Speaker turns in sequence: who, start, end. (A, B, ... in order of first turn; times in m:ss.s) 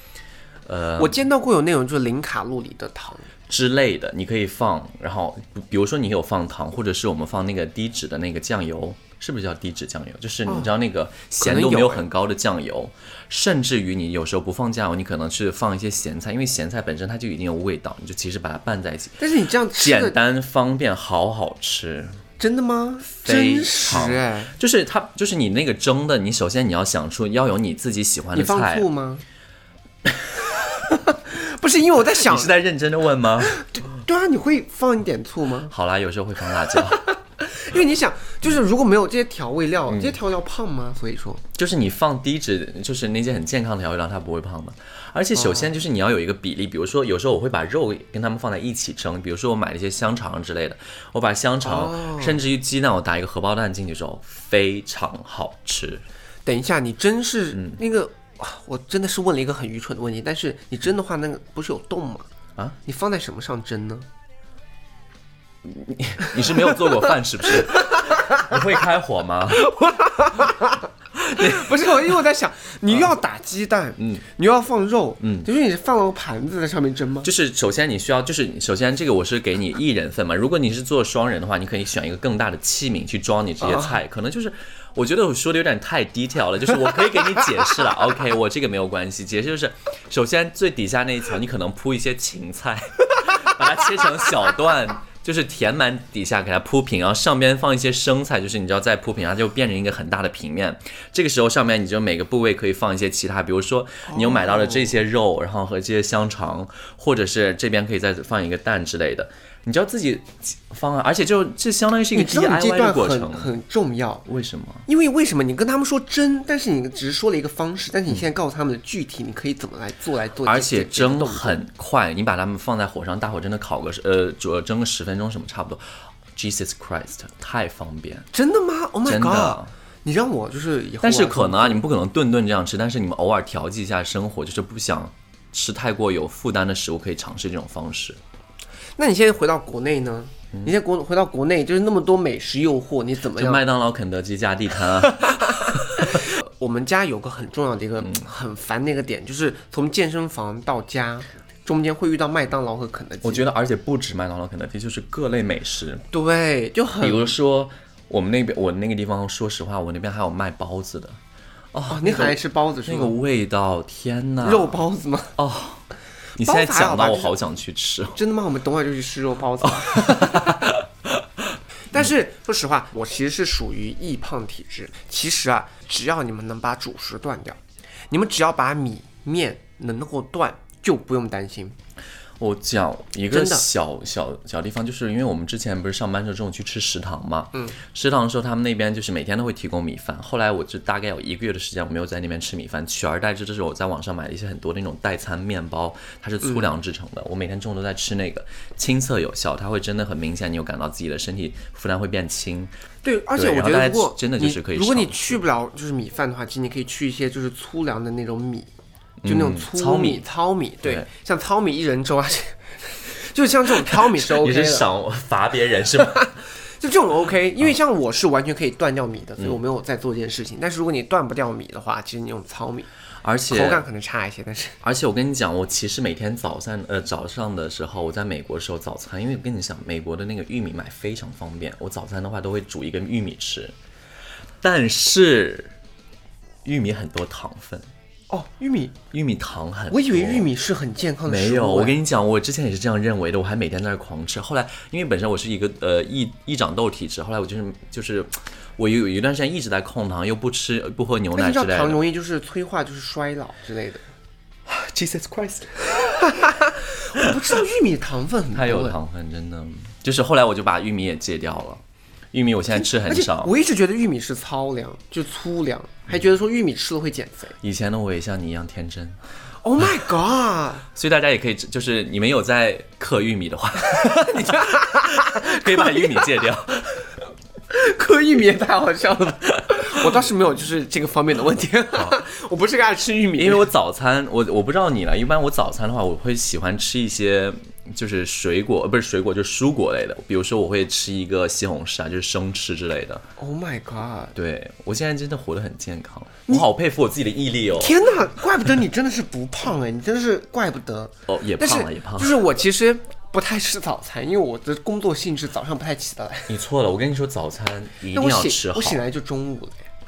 0:00.6-0:01.2 A
0:01.0-0:03.3 B
0:03.5-0:19.2 A
0:10.4-0:10.7 B
0:11.4-0:12.0 B
0:19.2-0:20.2 B
0:19.8-0:22.2 A
0:22.4-0:24.5 B
0:23.1-0:28.8 A
0:28.3-0:29.2 B
0:30.0-0:30.4 A
0:30.7-0:32.5 B
0:32.1-0:33.6 A
0:33.5-0:35.7 B
0:35.7-0:37.1 A
0:36.7-0:41.4 B
0:39.9-0:40.2 A
0:41.5-0:56.0 A
0:45.4-0:45.7 B
0:51.6-0:52.4 B
0:56.4-1:02.3 B
0:57.5-0:57.8 A
1:02.8-1:04.0 B
1:05.6-1:09.7 A
1:07.6-1:08.5 B
1:09.5-1:17.3 B
1:11.3-1:11.9 A
1:14.0-1:14.2 A
1:15.2-1:15.5 A
1:17.2-1:53.5 A
1:23.6-1:24.0 B
1:44.1-1:45.0 B
1:52.1-1:54.2 B
1:54.2-1:54.8 A
1:54.9-2:01.6 B
2:00.4-2:05.8 A
2:06.4-2:08.3 A
2:08.3-2:11.8 B
2:09.0-2:09.7 A
2:11.0-2:18.2 A
2:19.0-2:23.6 B
2:23.3-2:26.2 A
2:25.4-2:33.5 B
2:33.2-2:36.0 A
2:36.1-2:37.3 B
2:37.0-2:41.2 A
2:41.7-2:44.8 A
2:41.9-2:43.1 B
2:44.4-2:45.4 B
2:45.4-2:45.8 A
2:46.4-2:48.2 A
2:46.4-2:47.3 B
2:48.1-2:50.7 B
2:49.8-2:51.2 A
2:51.9-2:57.6 B
2:58.1-3:01.8 B
3:02.4-3:22.7 A
3:03.3-3:03.6 B
3:23.0-3:28.7 B
3:23.3-3:25.4 A
3:29.2-3:30.2 A
3:29.2-3:34.9 B
3:33.9-3:36.3 A
3:36.0-3:42.9 B
3:43.2-3:43.8 A
3:43.5-3:44.8 B
3:44.8-3:53.7 A
3:54.6-3:55.7 A
3:56.6-3:57.9 A
3:58.3-3:59.0 B
3:59.1-4:00.5 A
3:59.9-4:02.0 B
4:01.2-4:12.0 A
4:11.4-4:14.0 B
4:14.6-4:16.6 A
4:16.2-4:19.0 B
4:18.5-4:23.5 A
4:22.7-4:27.6 B
4:27.6-4:29.2 A
4:29.6-4:30.8 B
4:30.9-4:37.1 A
4:34.0-4:36.2 B
4:37.7-4:43.7 B
4:39.7-4:40.2 A
4:43.4-4:53.2 A
4:53.4-4:54.3 B
4:54.3-4:58.0 A
4:57.8-5:06.5 B
5:01.3-5:02.4 A
5:06.5-5:09.0 A
5:08.1-5:09.9 B